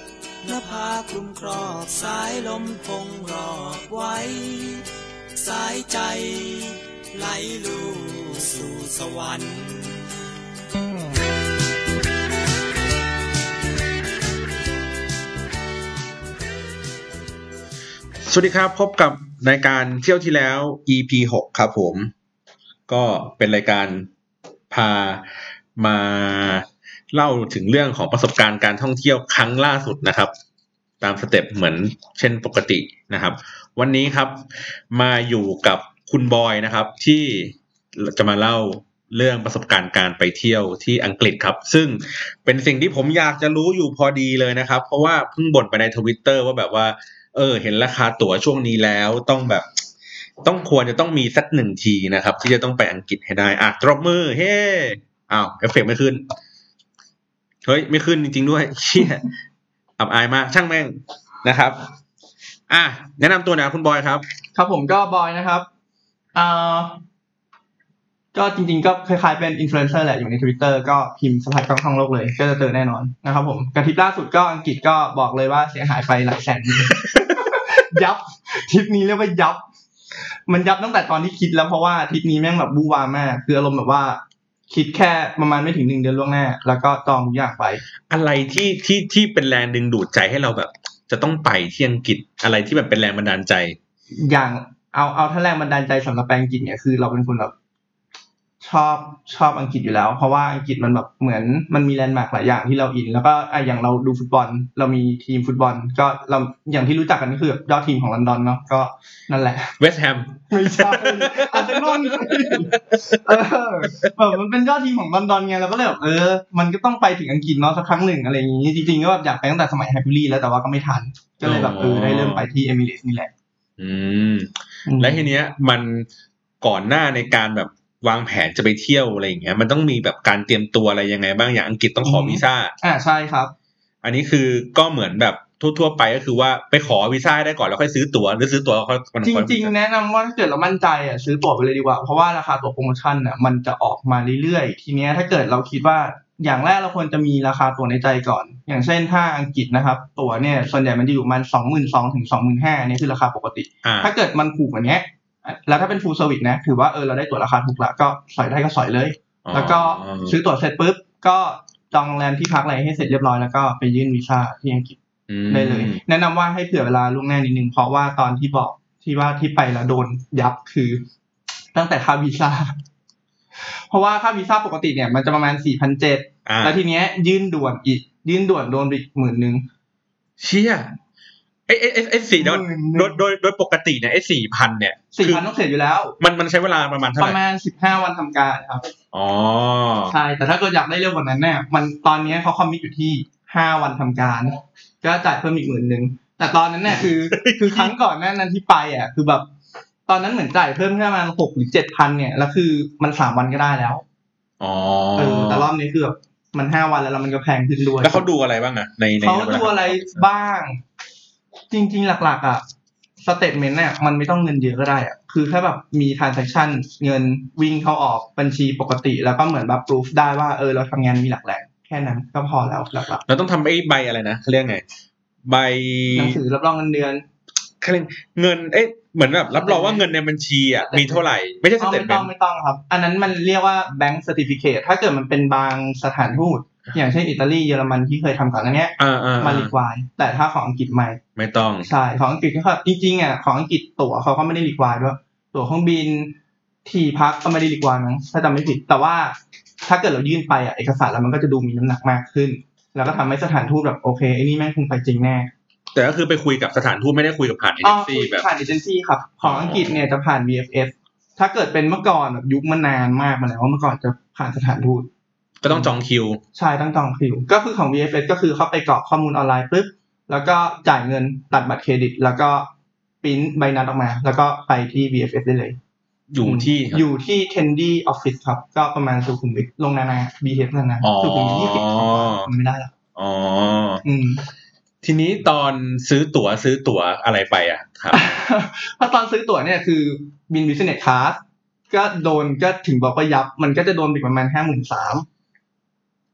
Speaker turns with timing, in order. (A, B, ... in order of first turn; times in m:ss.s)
0:00.4-0:10.1 A
0:18.2-0:22.1 B
0:22.9-0:24.1 B
0:24.7-0:30.3 B
0:31.0-0:49.7 B
0:50.4-0:56.2 B
0:57.6-0:59.3 B
1:00.0-1:01.8 B
1:02.7-1:04.2 B
1:04.5-1:05.7 C
1:06.3-1:07.0 C
1:08.3-1:19.6 C
1:16.9-1:17.4 B
1:20.5-1:27.8 C
1:28.1-1:33.8 B
1:34.2-1:37.5 C
1:38.6-1:49.8 C
1:49.8-1:53.3 B
1:50.5-2:03.3 C
2:01.4-2:02.5 B
2:03.8-2:06.1 B
2:04.8-2:05.3 C
2:06.6-2:12.7 B
2:12.0-2:13.5 C
2:14.0-2:19.7 B
2:19.2-2:45.0 C
2:33.8-2:34.1 B
2:39.4-2:40.3 B
2:45.3-2:46.0 B
2:45.5-2:51.0 C
2:51.7-2:52.7 C
2:53.6-2:59.6 C
2:56.4-2:56.8 B
3:00.4-3:00.9 B
3:01.7-3:05.4 B
3:02.4-3:03.2 C
3:05.1-3:06.2 C
3:06.2-3:07.4 B
3:07.2-3:08.8 C
3:09.1-3:10.1 B
3:10.1-3:19.5 C
3:16.9-3:17.9 B
3:20.1-3:24.0 C
3:24.6-3:25.7 B
3:25.2-3:28.2 C
3:28.0-3:30.2 B
3:29.2-3:30.8 C
3:31.7-3:32.6 C
3:33.2-3:43.2 C
3:43.2-3:44.8 B
3:45.4-3:46.4 B
3:46.1-3:47.2 C
3:47.8-3:52.3 B
3:49.5-3:50.1 C
3:50.8-3:51.2 C
3:51.8-4:01.2 C
3:59.0-3:59.7 B
4:01.4-4:01.9 B
4:01.8-4:15.5 C
4:15.9-4:18.4 B
4:17.8-4:25.1 C
4:19.4-4:20.0 B
4:25.6-4:26.4 B
4:25.7-4:25.9 C
4:26.5-4:32.7 C
4:33.2-4:35.8 C
4:36.3-4:37.0 B
4:36.4-4:42.9 C
4:41.0-4:42.5 B
4:43.2-4:44.0 B
4:44.0-4:44.4 C
4:45.0-4:48.2 B
4:48.1-4:55.2 C